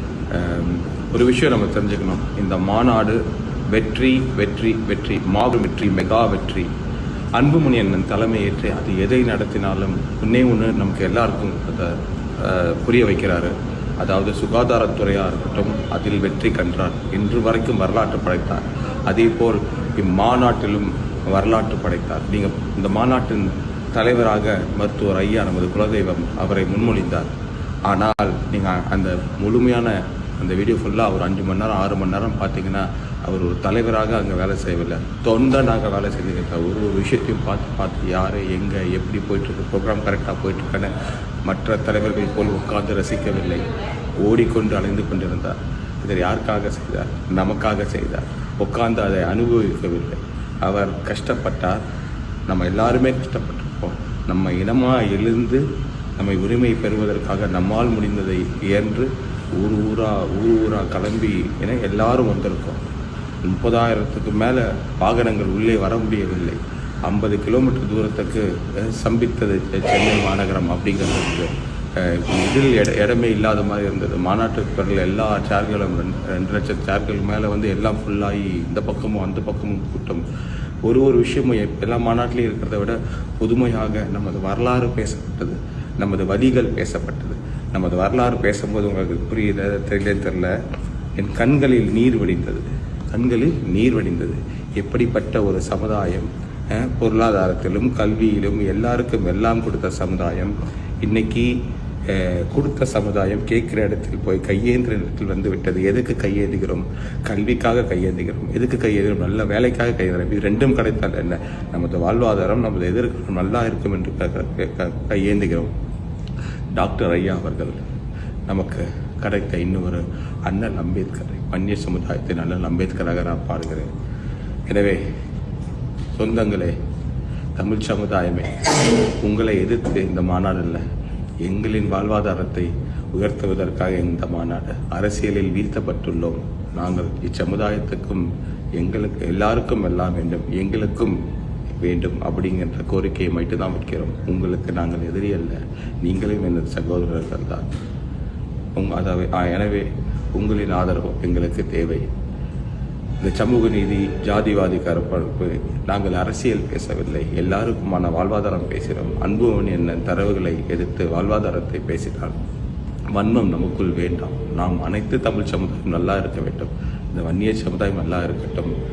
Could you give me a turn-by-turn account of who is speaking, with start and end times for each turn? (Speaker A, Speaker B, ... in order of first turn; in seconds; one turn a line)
Speaker A: 0.3-3.2
Speaker A: 3.7-6.7
Speaker A: 7.4-27.3
Speaker A: 27.9-40.9
Speaker A: 41.5-43.7
Speaker A: 44.2-51.8
Speaker A: 52.5-55.6
Speaker A: 56.2-62.8
Speaker A: 63.4-80.2
Speaker A: 80.8-90.5
Speaker A: 91.2-101.5
Speaker A: 102.1-115.7
Speaker A: 116.7-117.8
Speaker A: 118.5-123.9
Speaker A: 124.7-125.0
Speaker A: 126.2-126.8
Speaker A: 127.6-130.8
Speaker A: 131.4-141.2
Speaker A: 141.8-147.7
Speaker A: 148.8-152.1
Speaker A: 153.2-162.4
Speaker A: 163.1-168.7